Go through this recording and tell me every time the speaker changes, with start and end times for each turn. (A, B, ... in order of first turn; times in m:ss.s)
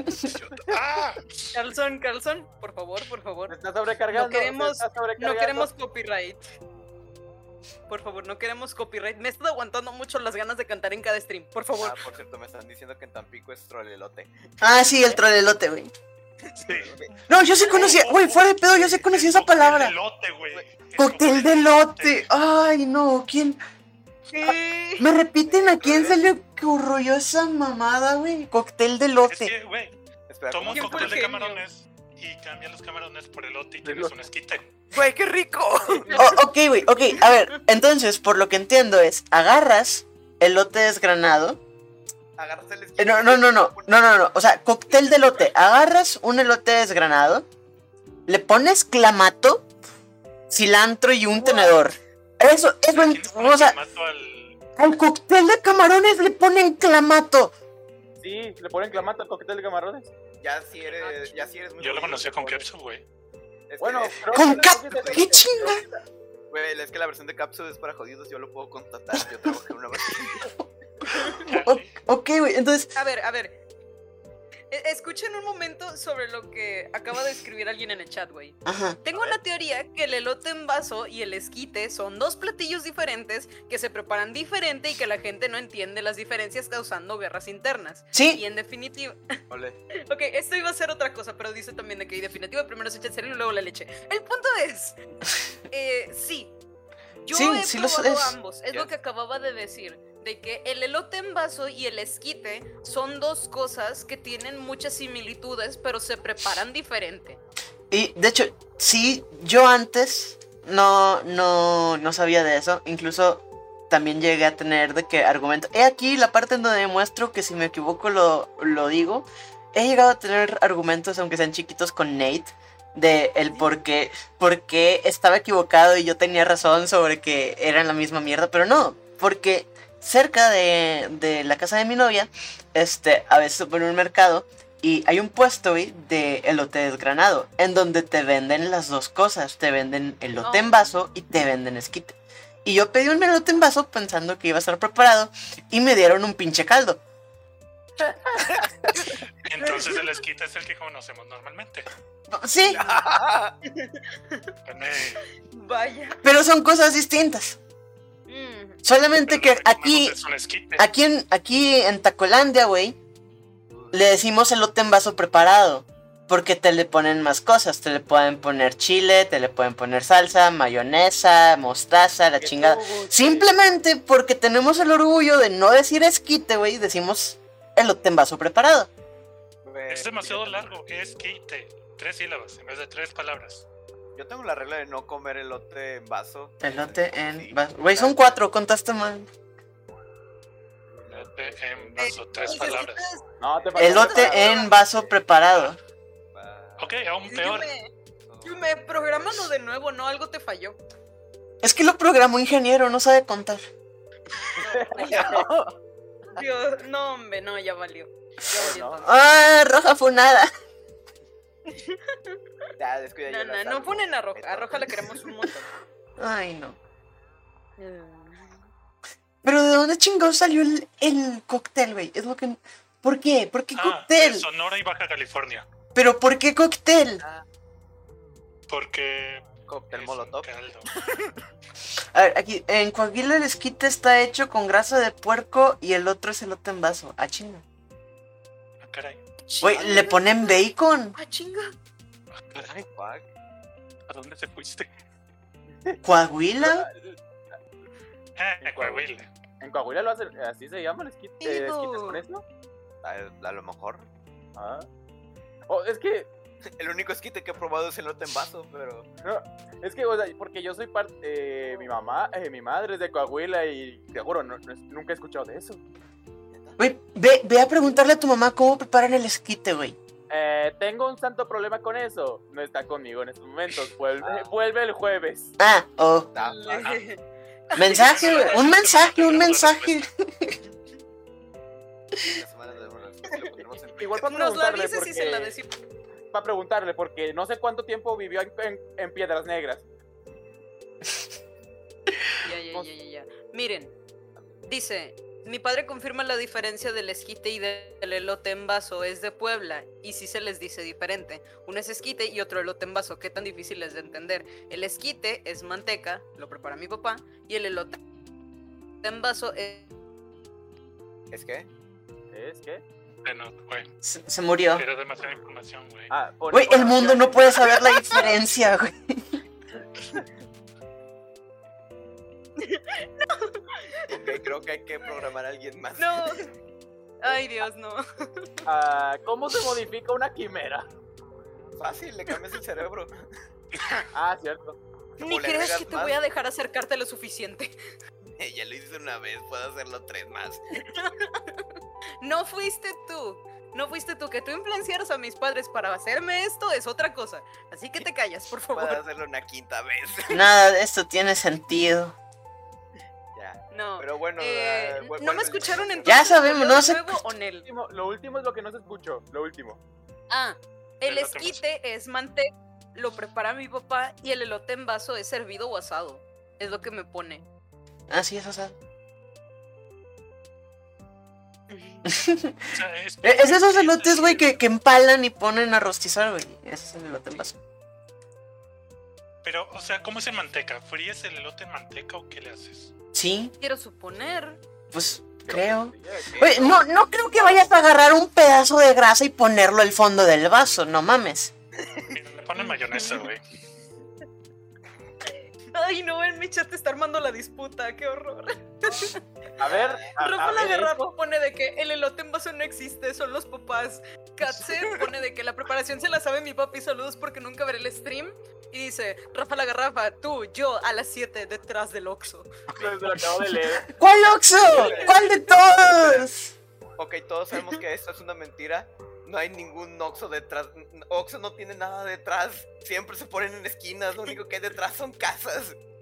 0:00.2-0:00.8 A
0:00.7-0:01.6 B
0:01.5-0:03.6 C
0:03.5-0:05.7 D
0:04.1-0:06.4 C
0:07.9-0:12.0 C
0:11.8-0:14.5 A
0:14.6-0:15.9 E
0:16.4-0:17.1 A
0:16.6-0:17.0 B
0:17.3-0:20.0 E
0:17.6-0:22.3 B
0:21.0-0:23.6 E
0:24.3-0:25.1 C
0:24.4-0:29.5 E
0:25.4-0:26.2 A
0:29.3-0:30.0 B
0:30.3-0:31.4 A
0:30.5-0:34.7 B
0:30.7-0:31.6 C
0:33.8-0:34.1 D
0:34.9-0:36.2 A
0:36.1-0:36.4 C
0:36.2-0:41.6 E
0:42.4-0:43.9 A
0:43.0-0:47.4 E
0:44.9-0:45.5 A
0:48.3-0:49.6 E
0:50.5-0:53.8 E
0:51.5-0:51.7 C
0:52.9-0:54.6 B
0:54.8-0:57.5 E
0:58.2-1:00.1 D
1:00.4-1:02.7 A
1:00.9-1:01.4 C
1:01.8-1:03.0 B
1:03.7-1:05.3 A
1:03.8-1:06.0 D
1:04.3-1:05.8 E
1:06.5-1:10.6 A
1:11.4-1:12.0 B
1:11.5-1:12.9 E
1:13.0-1:13.6 C
1:14.7-1:29.3 C
1:18.6-1:19.0 E
1:19.1-1:19.4 A
1:28.1-1:28.4 E
1:29.5-1:29.8 A
1:29.9-1:35.0 C
1:35.7-1:36.6 C
1:37.2-1:47.4 C
1:37.3-1:38.4 E
1:47.9-2:27.0 E
2:20.4-2:20.8 C
2:28.0-2:28.5 D
2:28.4-2:29.8 A
2:29.4-2:31.9 B
2:32.3-2:33.0 E
2:32.6-2:33.6 A
2:33.7-2:34.5 C
2:34.6-2:35.2 B
2:35.2-2:36.2 C
2:36.2-2:37.6 E
2:38.3-2:38.8 C
2:38.8-2:40.2 E
2:39.2-2:40.9 B
2:40.8-2:43.0 E
2:43.7-2:44.0 A
2:43.9-2:58.9 E
2:52.4-2:53.6 D
2:59.6-3:00.7 A
2:59.9-3:03.7 B
3:04.2-3:08.4 A
3:06.6-3:09.3 E
3:10.9-3:11.6 D
3:11.1-3:13.0 B
3:11.1-3:12.8 A
3:12.0-3:13.2 C
3:13.4-3:14.7 D
3:13.5-3:15.2 A
3:13.8-3:14.7 C
3:13.8-3:15.8 E
3:16.3-3:17.0 A
3:16.8-3:17.7 B
3:17.2-3:17.9 C
3:18.2-3:19.4 A
3:18.4-3:20.8 C
3:21.6-3:23.6 E
3:24.6-3:25.5 D
3:24.7-3:25.5 C
3:25.0-3:25.7 A
3:26.3-3:29.1 C
3:28.6-3:29.0 D
3:29.0-3:30.5 E
3:31.7-3:32.4 C
3:32.8-3:35.0 A
3:33.3-3:35.7 C
3:36.2-3:36.8 E
3:37.8-3:38.6 C
3:39.4-3:44.5 E
3:43.8-3:45.7 B
3:46.0-3:47.2 E
3:47.2-3:47.5 A
3:48.7-3:51.1 B
3:49.7-3:50.5 A
3:52.1-3:57.6 E
3:58.8-3:59.2 B
3:59.5-4:00.6 C
3:59.6-4:01.2 E
4:01.2-4:01.7 C
4:02.4-4:02.9 B
4:02.9-4:03.3 A
4:04.1-4:04.9 B
4:06.0-4:06.9 E
4:06.6-4:07.6 D
4:08.4-4:09.3 B
4:08.6-4:12.4 D
4:11.4-4:12.2 C
4:13.0-4:14.1 A
4:14.6-4:14.9 D
4:15.7-4:16.3 D
4:16.8-4:19.1 A
4:19.2-4:25.8 D
4:26.5-4:26.8 A
4:26.8-4:30.0 E
4:30.3-4:35.5 D
4:34.2-4:34.5 A
4:35.6-4:36.3 E
4:36.3-4:37.0 A
4:36.4-4:38.6 C
4:37.8-4:40.6 E
4:37.9-4:40.1 B
4:42.2-4:44.3 A
4:44.0-4:45.6 D
4:44.3-4:45.7 C
4:46.3-4:49.8 D
4:52.4-4:53.9 C
4:54.4-4:54.6 A
4:54.6-5:08.0 C
5:09.0-5:09.9 C
5:11.3-5:11.7 A
5:12.3-5:12.8 D
5:13.2-5:13.9 B
5:14.0-5:14.8 E
5:14.7-5:16.1 B
5:16.1-5:17.6 D
5:16.5-5:19.4 E
5:17.7-5:18.3 C
5:22.6-5:24.3 C
5:24.1-5:26.4 A
5:26.0-5:26.5 C
5:27.2-5:28.6 C
5:28.6-5:30.9 D
5:31.8-5:33.2 A
5:34.1-5:34.8 D
5:35.2-5:37.8 C
5:35.2-5:36.2 A
5:38.4-5:40.7 A
5:40.8-5:41.6 C
5:42.2-5:49.0 C
5:48.7-5:50.5 A
5:50.3-5:52.2 E
5:53.3-5:56.4 A
5:53.7-5:57.7 C
5:56.0-5:57.3 E
5:57.6-5:59.8 D
6:00.3-6:07.4 C
6:01.1-6:01.6 B
6:08.1-6:08.8 E
6:11.7-6:12.0 C
6:12.1-6:12.6 E
6:12.7-6:14.5 B
6:13.2-6:17.6 E
6:19.4-6:22.9 B
6:23.1-6:23.5 E
6:23.6-6:24.6 C
6:24.9-6:31.5 E
6:25.5-6:26.8 D
6:26.3-6:26.8 A
6:31.8-6:32.2 A
6:32.1-6:33.4 B
6:32.6-6:33.3 C
6:35.7-6:39.2 C
6:39.6-6:41.0 D
6:39.6-6:40.1 A
6:40.2-6:52.5 C
6:52.8-6:53.9 D
6:53.9-6:56.5 E
6:54.7-6:55.3 A
6:54.7-6:55.2 C
6:55.9-6:56.3 A
6:57.0-7:05.8 A